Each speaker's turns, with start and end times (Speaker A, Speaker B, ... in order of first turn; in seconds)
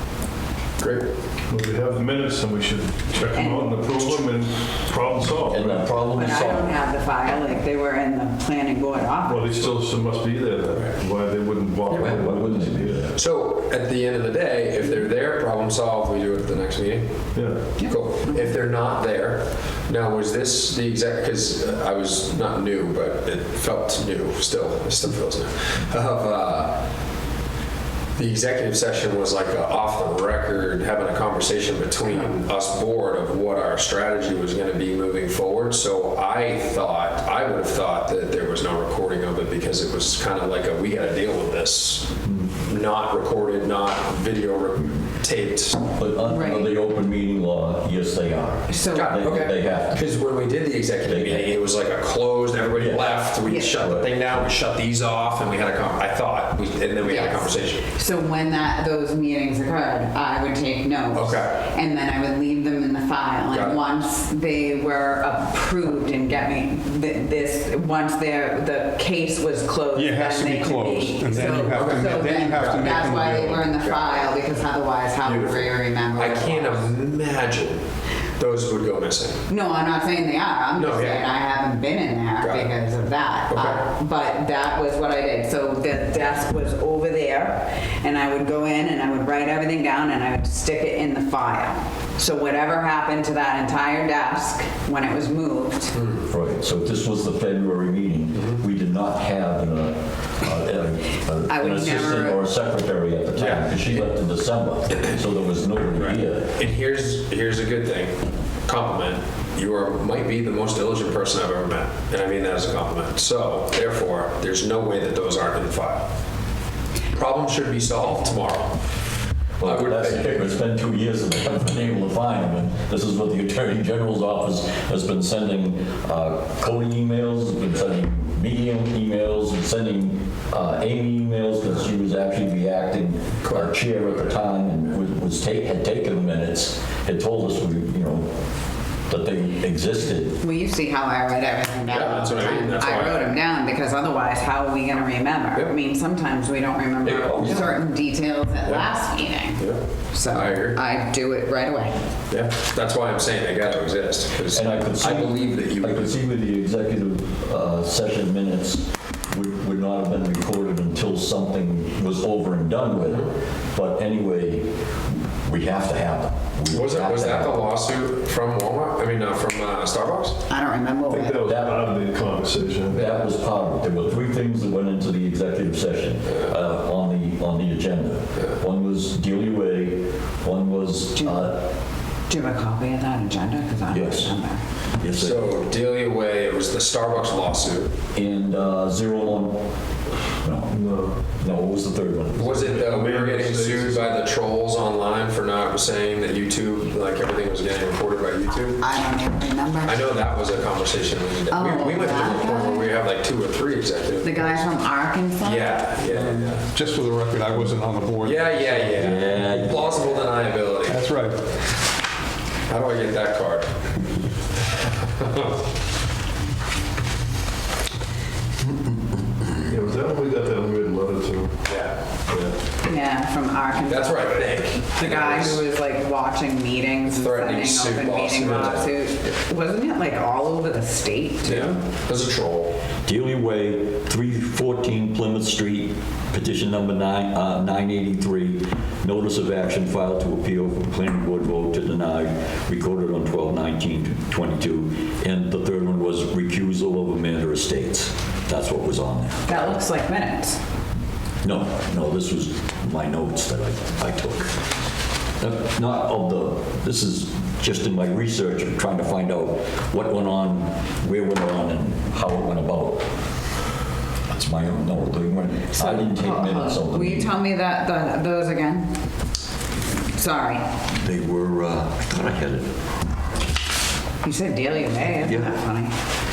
Speaker A: 0.8-1.1, 13.1-26.8, 28.1-45.9, 48.9-57.9, 61.1-61.6, 63.5-63.8, 71.3-72.9, 73.8-74.2, 75.2-77.8, 78.4-79.4, 80.8-81.4, 82.4-82.7, 83.5-83.8, 96.0-96.2, 103.4-104.1, 106.0-116.1, 117.1-118.8, 119.6-120.3, 133.4-134.3, 141.9-143.3, 147.0-147.7, 149.6-150.8, 152.3-156.2, 166.7-170.4, 185.1-187.9, 192.3-198.8, 199.8-204.6, 205.4-206.7, 208.2-211.1, 212.7-213.7, 215.0-215.6, 221.7-222.0, 223.9-225.6, 227.1-228.9, 231.4-232.7
Speaker B: 1.5-6.1, 9.2-13.0, 17.3-17.8, 171.1-173.1, 190.7-191.1, 192.7-194.2, 219.7-221.6, 222.3-222.5
Speaker C: 3.3-4.1, 6.1-9.7, 17.8-18.5, 46.2-46.7, 48.7-49.2, 53.4-53.8, 57.0-76.9, 79.5-96.0, 101.5-102.4, 140.4-151.9, 170.5-171.4, 181.2-181.5, 182.3-184.6, 198.8-200.2, 201.5-203.0, 204.2-206.5, 222.8-231.8, 249.4-250.6, 265.7-268.9, 270.1-270.6, 274.2-275.9
Speaker D: 5.5-6.7, 11.9-13.2, 46.0-50.0, 51.0-51.5, 52.8-54.1, 96.3-106.6, 119.6-138.3, 139.1-140.4, 147.3-147.6, 154.5-164.7, 165.4-167.7, 171.4-171.9, 172.9-181.6, 183.9-184.3, 184.9-185.5, 188.1-189.7, 190.3-192.7, 209.0-210.1, 233.0-249.8, 251.4-254.6, 255.4-263.1, 264.3-267.4, 270.9-272.8, 275.2-275.6
Speaker E: 69.9-73.8, 206.6-209.0, 210.9-211.4